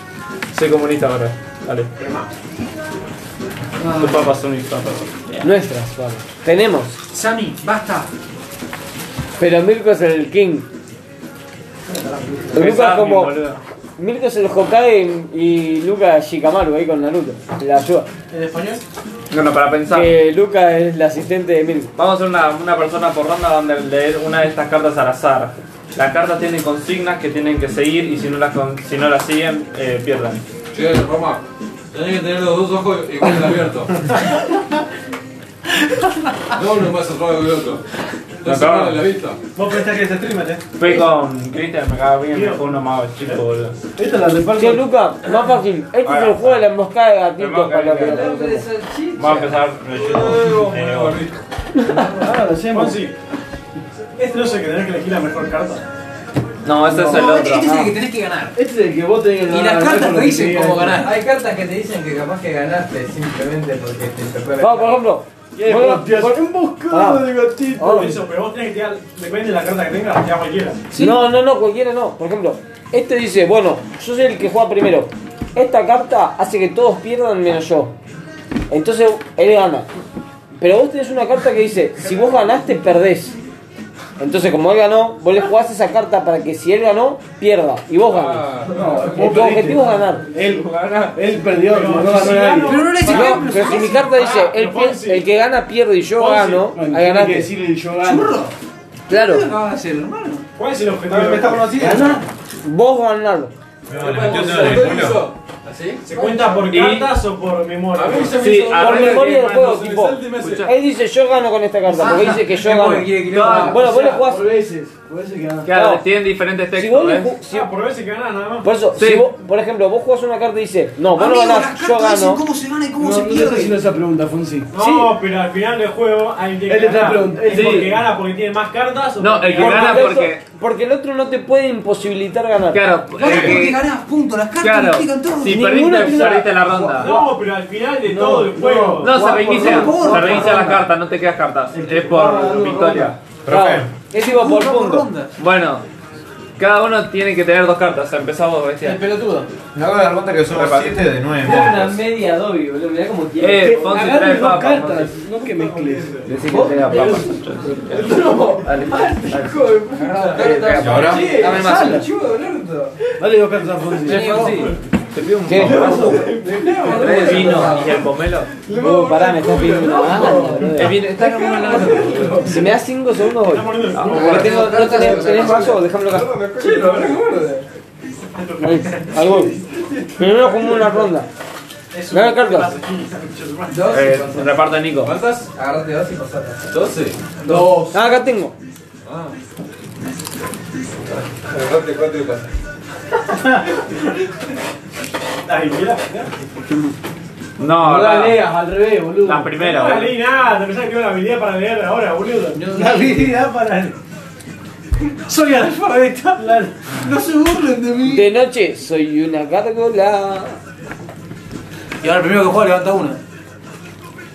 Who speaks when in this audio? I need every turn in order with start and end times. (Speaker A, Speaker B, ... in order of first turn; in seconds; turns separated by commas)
Speaker A: 0.5-1.9, Speaker B: 2.0-2.3, Speaker C: 3.8-4.3, Speaker A: 3.9-5.5, Speaker D: 5.4-7.0, Speaker C: 7.1-8.1, Speaker D: 9.4-10.7, Speaker B: 11.9-12.4, Speaker D: 12.5-13.4, Speaker A: 12.5-13.6, Speaker D: 14.0-18.1, Speaker E: 18.3-18.8, Speaker A: 19.3-20.1, Speaker D: 19.9-21.9, Speaker A: 21.9-30.4, Speaker F: 30.7-34.1, Speaker F: 36.5-37.8, Speaker F: 38.4-39.4, Speaker A: 38.4-39.1, Speaker B: 39.5-40.6, Speaker E: 39.6-40.6, Speaker A: 40.8-43.7, Speaker B: 42.3-43.4, Speaker G: 44.0-44.9, Speaker D: 44.6-48.7, Speaker A: 46.0-46.7, Speaker A: 47.4-48.3, Speaker H: 48.0-49.6, Speaker A: 49.2-51.2, Speaker F: 49.9-51.4, Speaker D: 51.8-52.1, Speaker G: 52.1-53.0, Speaker B: 52.7-53.1, Speaker B: 54.1-55.8, Speaker A: 56.6-57.7, Speaker G: 56.9-57.9, Speaker C: 56.9-58.5, Speaker G: 58.5-61.0, Speaker C: 59.5-61.2, Speaker H: 60.9-65.0, Speaker D: 64.6-68.1, Speaker G: 65.5-68.2, Speaker B: 67.9-70.8, Speaker C: 70.9-71.2, Speaker D: 70.9-77.9, Speaker D: 78.7-79.9, Speaker D: 80.5-83.4, Speaker D: 84.2-90.2, Speaker F: 88.0-89.4, Speaker G: 88.7-93.0, Speaker A: 90.3-91.2, Speaker B: 91.6-95.3, Speaker C: 92.6-94.1, Speaker D: 93.0-97.5, Speaker G: 96.2-98.4, Speaker C: 98.0-98.5, Speaker D: 99.1-99.5, Speaker C: 99.1-100.4, Speaker B: 100.5-102.2, Speaker E: 101.1-102.2, Speaker G: 101.7-102.2, Speaker D: 102.6-103.5, Speaker I: 103.9-105.2, Speaker F: 103.9-106.0, Speaker B: 106.0-108.5, Speaker A: 106.7-107.2, Speaker F: 107.9-110.7, Speaker A: 108.3-109.5, Speaker D: 108.6-114.5, Speaker A: 110.4-110.7, Speaker C: 111.8-114.1, Speaker A: 113.3-113.8, Speaker G: 113.5-115.7, Speaker A: 115.6-117.3, Speaker D: 115.7-116.0, Speaker D: 116.7-117.7, Speaker B: 117.5-118.7, Speaker D: 118.6-122.4, Speaker A: 119.0-119.3, Speaker C: 121.1-123.8, Speaker G: 123.0-124.7, Speaker B: 124.7-130.2, Speaker G: 126.7-128.1, Speaker A: 127.5-128.0, Speaker A: 129.2-130.4, Speaker D: 129.5-133.0, Speaker A: 132.7-133.8, Speaker C: 133.1-135.7, Speaker A: 134.6-137.1, Speaker D: 135.4-136.5, Speaker G: 135.9-137.3, Speaker B: 137.0-139.3, Speaker G: 138.0-140.8, Speaker A: 139.0-143.2, Speaker C: 139.4-140.8, Speaker G: 141.7-143.2, Speaker I: 143.4-143.9, Speaker D: 143.5-145.1, Speaker C: 144.1-145.3, Speaker A: 145.4-145.8, Speaker A: 146.6-149.0, Speaker I: 149.7-152.0, Speaker A: 150.5-151.2, Speaker D: 151.4-154.0, Speaker A: 153.4-155.2, Speaker G: 153.5-162.1, Speaker E: 155.5-156.3, Speaker A: 156.2-159.7, Speaker H: 160.2-163.0, Speaker A: 160.3-161.5, Speaker D: 160.4-160.8, Speaker I: 160.8-161.3, Speaker C: 161.3-162.0, Speaker G: 163.1-164.4, Speaker C: 164.1-164.7, Speaker A: 164.1-166.3, Speaker D: 165.5-166.1, Speaker G: 165.6-168.0, Speaker H: 166.4-168.0, Speaker A: 166.8-168.5, Speaker D: 168.7-171.0, Speaker G: 168.7-172.7, Speaker H: 169.8-170.4, Speaker A: 170.7-172.4, Speaker H: 171.3-172.7, Speaker D: 172.4-176.4, Speaker B: 173.3-174.7, Speaker A: 173.9-174.5, Speaker H: 174.1-175.8, Speaker C: 174.2-175.7, Speaker F: 176.0-177.2, Speaker H: 176.6-177.7, Speaker B: 178.3-179.4, Speaker D: 178.6-179.5, Speaker D: 180.2-181.3, Speaker B: 181.9-184.1, Speaker D: 182.1-182.7, Speaker H: 183.7-184.5, Speaker A: 183.9-185.2, Speaker F: 185.0-185.5, Speaker H: 185.5-186.6, Speaker F: 186.7-187.3, Speaker G: 187.4-188.1, Speaker D: 187.9-188.6, Speaker F: 189.0-189.4, Speaker F: 191.1-192.5, Speaker B: 193.3-193.7, Speaker B: 195.4-196.4, Speaker A: 197.6-198.4, Speaker G: 197.8-199.5, Speaker A: 199.2-200.2, Speaker B: 199.5-202.7, Speaker C: 202.5-203.5, Speaker C: 205.1-208.2, Speaker D: 208.0-210.6, Speaker C: 212.0-213.2